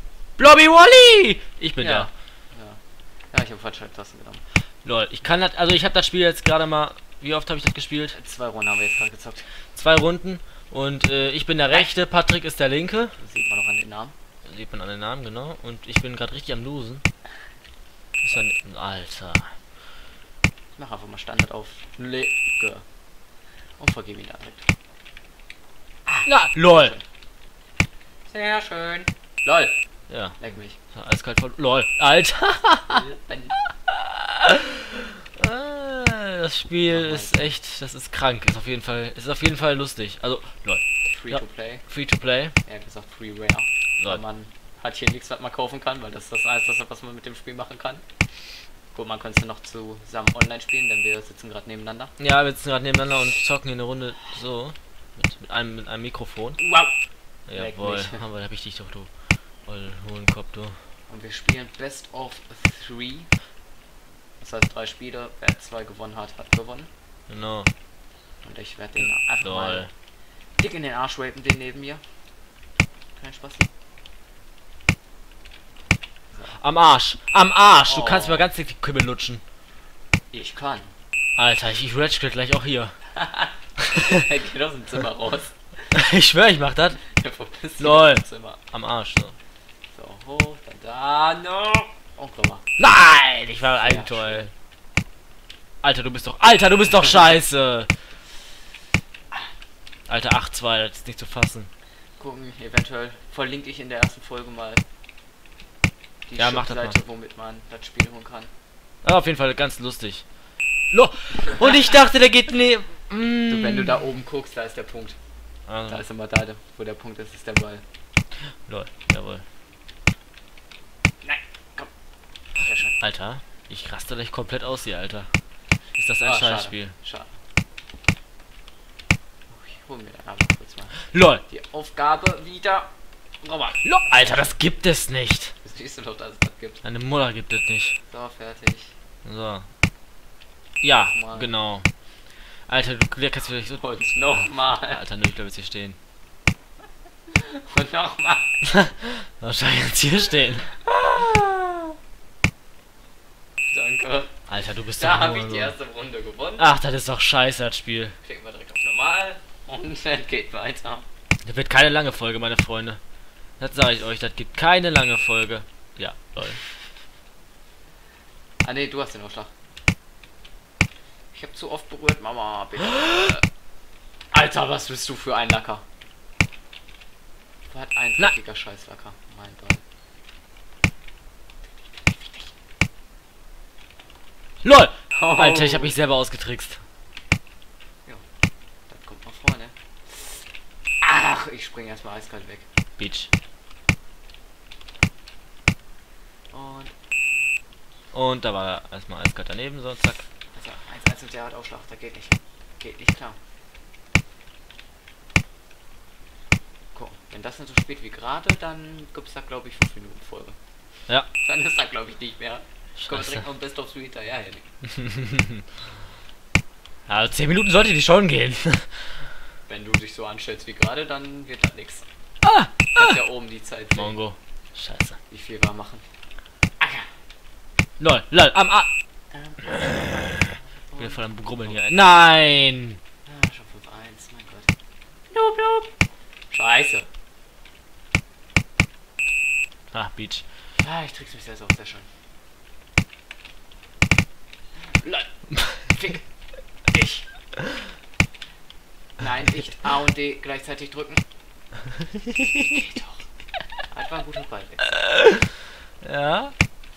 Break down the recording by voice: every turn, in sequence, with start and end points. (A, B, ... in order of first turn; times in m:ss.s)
0:00.4-0:02.1 A
0:01.8-0:02.8 B
0:03.3-0:04.4 B
0:04.8-0:08.2 A
0:08.1-0:09.5 B
0:09.8-0:13.2 A
0:13.2-0:14.1 B
0:14.5-0:17.0 A
0:18.2-0:19.5 A
0:20.8-0:22.8 B
0:23.8-0:24.7 B
0:26.1-0:27.0 B
0:26.2-0:27.0 A
0:28.3-0:29.7 B
0:30.1-0:30.4 A
0:30.4-0:30.8 B
0:31.0-0:33.1 A
0:32.9-0:33.6 B
0:33.9-0:42.6 A
0:36.9-0:37.6 B
0:41.1-0:41.8 B
0:42.6-0:48.0 B
0:48.9-0:52.1 B
0:52.2-0:56.6 A
0:56.6-0:56.9 B
0:57.5-0:59.1 A
0:57.5-0:58.2 B
0:59.7-1:00.8 A
1:01.1-1:03.3 B
1:04.4-1:06.9 B
1:07.3-1:07.7 A
1:08.4-1:09.9 B
1:09.4-1:09.9 A
1:10.6-1:12.0 B
1:13.2-1:13.7 B
1:16.6-1:19.4 A
1:17.9-1:18.5 B
1:20.3-1:20.9 B
1:21.4-1:23.0 A
1:23.2-1:25.6 B
1:23.8-1:24.2 A
1:25.9-1:27.0 A
1:27.1-1:28.6 B
1:27.8-1:29.4 A
1:29.9-1:32.6 B
1:32.8-1:34.5 A
1:33.7-1:34.5 B
1:35.8-1:37.9 A
1:40.1-1:41.7 A
1:42.2-1:44.8 B
1:46.3-1:48.5 B
1:46.4-1:47.0 A
1:49.0-1:50.2 A
1:50.9-1:54.0 A
1:53.5-1:55.2 B
1:55.7-1:56.0 A
1:55.9-1:57.8 B
1:58.7-1:59.4 A
2:01.2-2:01.9 B
2:02.6-2:03.0 B
2:03.0-2:05.3 A
2:06.0-2:06.9 A
2:06.2-2:07.3 B
2:09.5-2:11.0 B
2:11.1-2:11.4 A
2:11.5-2:12.9 B
2:13.4-2:13.8 B
2:13.7-2:15.5 A
2:15.6-2:16.8 B
2:16.8-2:18.0 A
2:18.1-2:18.9 B
2:19.2-2:19.7 A
2:20.8-2:21.9 A
2:21.0-2:21.5 B
2:22.7-2:23.8 A
2:23.6-2:25.0 B
2:24.9-2:26.0 A
2:27.3-2:28.5 B
2:28.6-2:30.7 A
2:30.8-2:31.8 B
2:33.7-2:34.3 B
2:34.5-2:35.7 A
2:35.0-2:36.8 B
2:36.6-2:38.2 A
2:38.2-2:41.1 B
2:41.4-2:43.0 A
2:43.6-2:46.6 A
2:48.6-2:49.5 B
2:51.3-2:53.4 B
2:54.3-2:55.8 B
2:57.7-2:59.8 B
3:04.6-3:06.8 A
3:05.1-3:05.9 B
3:08.9-3:10.4 B
3:11.0-3:12.6 B
3:13.0-3:13.3 A
3:16.5-3:16.9 B
3:18.1-3:20.3 A
3:20.5-3:23.4 B
3:27.0-3:30.6 B
3:31.4-3:34.7 B
3:33.0-3:33.4 A
3:34.9-3:35.6 A
3:37.1-3:39.2 A
3:39.7-3:42.1 B
3:42.4-3:43.2 A
3:43.0-3:44.2 B
3:43.9-3:45.2 A
3:45.3-3:46.0 B
3:46.8-3:47.1 B
3:48.0-3:48.9 A
3:49.3-3:49.8 B
3:49.6-3:53.0 A
3:50.4-3:51.8 B
3:53.3-3:54.7 B
3:55.3-3:55.9 B
3:56.5-3:57.1 B
3:59.9-4:00.4 A
4:00.8-4:02.1 B
4:04.8-4:06.2 B
4:06.9-4:07.3 B
4:09.2-4:11.2 B
4:12.7-4:13.0 B
4:13.9-4:15.0 B
4:14.9-4:16.5 A